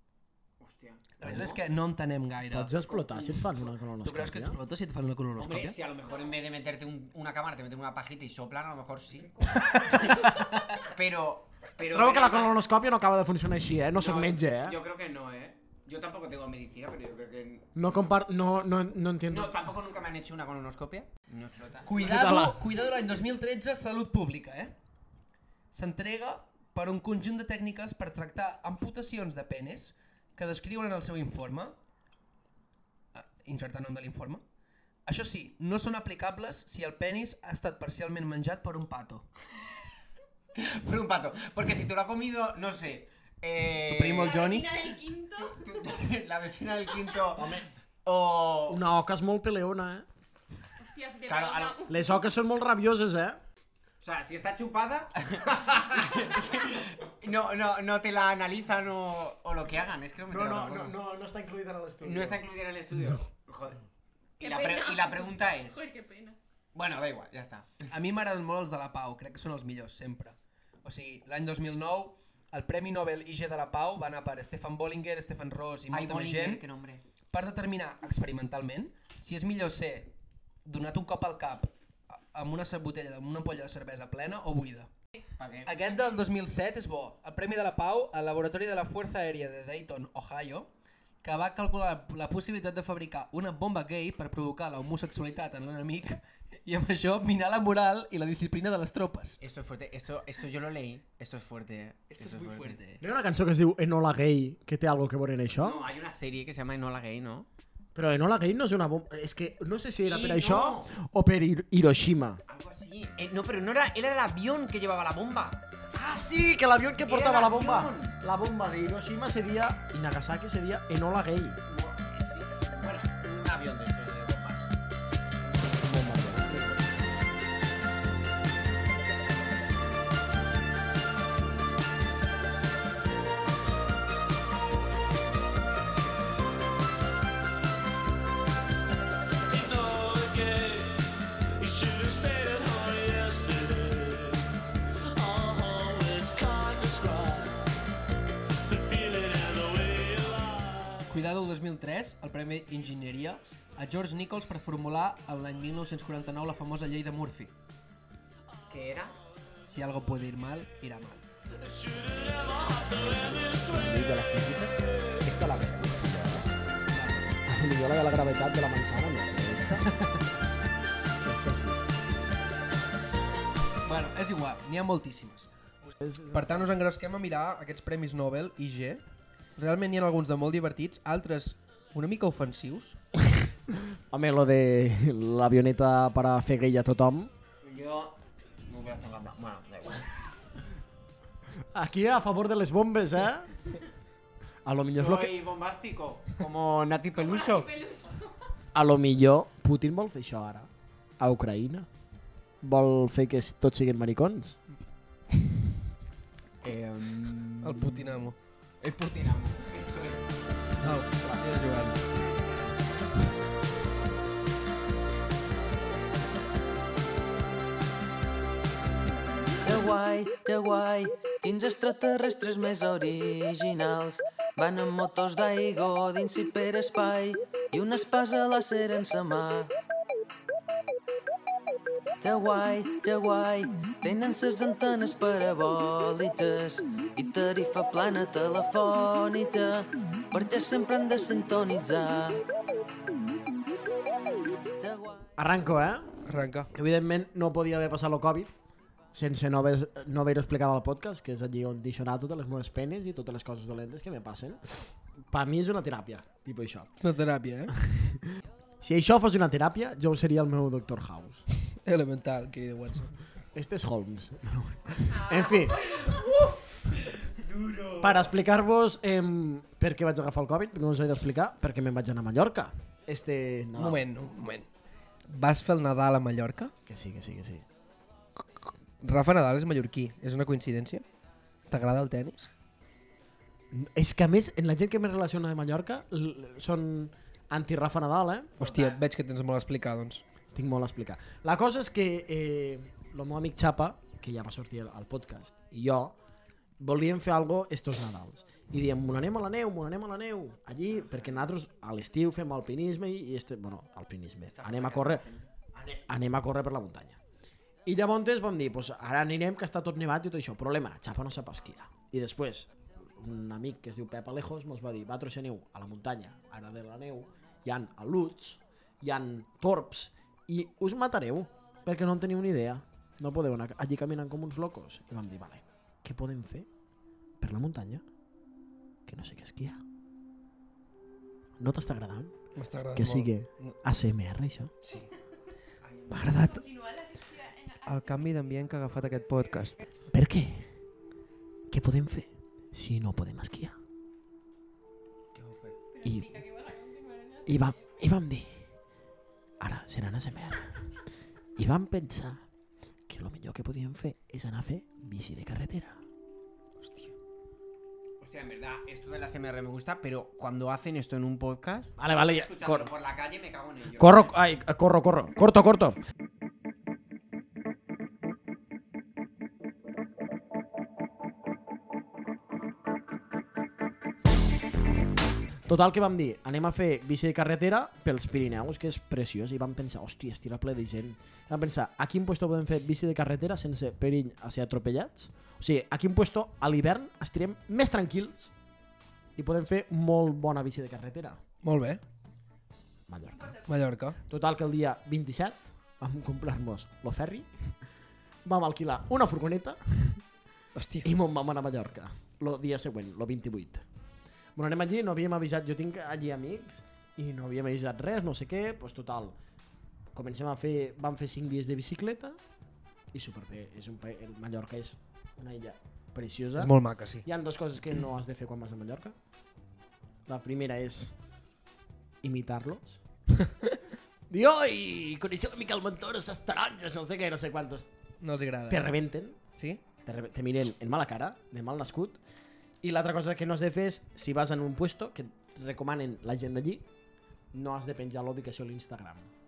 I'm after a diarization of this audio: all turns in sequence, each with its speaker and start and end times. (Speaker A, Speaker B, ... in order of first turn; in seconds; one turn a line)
Speaker A: 0.6-1.6
Speaker B: 1.2-2.7
Speaker C: 2.5-4.6
Speaker A: 2.9-3.4
Speaker B: 4.0-5.8
Speaker A: 5.4-12.6
Speaker C: 11.8-14.8
Speaker A: 14.0-17.7
Speaker C: 17.8-19.6
Speaker A: 19.3-22.0
Speaker B: 21.9-24.8
Speaker C: 22.0-22.6
Speaker B: 25.7-31.8
Speaker B: 33.1-34.4
Speaker B: 35.1-39.3
Speaker A: 40.6-44.5
Speaker B: 43.9-44.8
Speaker D: 44.2-45.7
Speaker A: 45.4-47.5
Speaker C: 47.4-47.7
Speaker A: 48.0-48.8
Speaker C: 48.7-50.1
Speaker D: 50.8-52.0
Speaker A: 51.3-51.9
Speaker C: 51.9-53.4
Speaker A: 54.0-61.0
Speaker C: 60.3-62.4
Speaker A: 62.0-63.8
Speaker A: 64.4-65.9
Speaker D: 64.4-66.4
Speaker A: 66.7-67.8
Speaker B: 67.9-76.6
Speaker A: 75.9-77.0
Speaker B: 77.3-80.1
Speaker B: 80.7-84.9
Speaker A: 85.4-85.8
Speaker B: 85.7-90.7
Speaker B: 91.2-99.4
Speaker A: 99.4-102.8
Speaker B: 102.1-103.0
Speaker C: 103.0-105.8
Speaker A: 105.5-107.5
Speaker C: 108.0-112.4
Speaker A: 110.0-110.9
Speaker A: 112.5-115.6
Speaker C: 115.9-121.6
Speaker A: 117.0-118.2
Speaker A: 121.7-124.8
Speaker C: 125.7-127.3
Speaker B: 142.1-144.1
Speaker B: 145.4-147.3
Speaker B: 149.4-149.7
Speaker B: 151.1-157.5
Speaker A: 158.7-159.2
Speaker B: 159.7-161.2
Speaker C: 162.8-166.6
Speaker B: 166.9-167.3
Speaker C: 167.4-169.9
Speaker C: 171.2-171.8
Speaker B: 173.8-179.0
Speaker C: 176.0-176.8
Speaker B: 179.6-183.0
Speaker C: 184.1-187.3
Speaker A: 187.6-190.1
Speaker C: 191.7-193.5
Speaker C: 194.7-195.3
Speaker A: 195.0-197.8
Speaker D: 197.2-198.1
Speaker C: 198.7-201.9
Speaker C: 202.6-204.6
Speaker A: 206.6-208.0
Speaker B: 207.6-208.4
Speaker A: 208.8-210.4
Speaker B: 210.8-212.0
Speaker E: 219.6-229.7
Speaker E: 232.2-242.4
Speaker E: 244.8-245.2
Speaker C: 245.4-246.1
Speaker B: 246.3-246.7
Speaker C: 246.7-248.6
Speaker C: 249.1-254.7
Speaker C: 255.3-256.9
Speaker B: 257.0-257.7
Speaker C: 257.8-258.2
Speaker C: 258.8-261.4
Speaker B: 261.9-263.1
Speaker C: 263.5-265.9
Speaker A: 265.8-268.3
Speaker C: 268.0-274.0
Speaker B: 273.8-274.7
Speaker B: 275.3-276.7
Speaker C: 276.9-277.6
Speaker B: 278.6-281.0
Speaker B: 281.7-282.5
Speaker C: 283.7-288.6
Speaker B: 288.6-290.2
Speaker A: 288.6-289.0
Speaker C: 290.6-296.2
Speaker C: 296.8-307.2
Speaker A: 304.5-305.5
Speaker C: 307.9-326.7
Speaker C: 327.4-328.0
Speaker C: 329.1-329.8
Speaker C: 331.6-332.4
Speaker B: 332.6-333.8
Speaker C: 332.9-334.7
Speaker B: 334.8-335.1
Speaker A: 335.8-336.3
Speaker B: 336.1-336.6
Speaker D: 336.2-338.5
Speaker B: 337.9-339.8
Speaker C: 340.1-340.7
Speaker C: 341.7-343.8
Speaker A: 345.4-345.8
Speaker D: 345.9-348.0
Speaker C: 346.0-346.4
Speaker C: 347.5-348.7
Speaker C: 349.6-350.7
Speaker C: 351.6-352.4
Speaker C: 353.1-356.0
Speaker B: 356.8-357.1
Speaker A: 358.2-364.4
Speaker C: 362.0-362.9
Speaker C: 364.0-366.0
Speaker C: 375.7-388.5
Speaker C: 389.4-391.4
Speaker B: 391.6-392.0
Speaker C: 393.1-393.6
Speaker B: 393.7-394.2
Speaker C: 394.3-397.7
Speaker C: 398.4-400.2
Speaker B: 400.8-401.1
Speaker C: 401.0-403.9
Speaker C: 404.6-409.4
Speaker C: 410.1-412.4
Speaker C: 413.1-419.1
Speaker B: 416.6-417.3
Speaker C: 420.3-421.1
Speaker C: 422.2-423.0
Speaker C: 424.3-427.9
Speaker B: 428.2-428.9
Speaker C: 428.7-429.4
Speaker B: 429.6-429.8
Speaker C: 430.1-432.2
Speaker C: 432.8-436.9
Speaker C: 437.5-439.3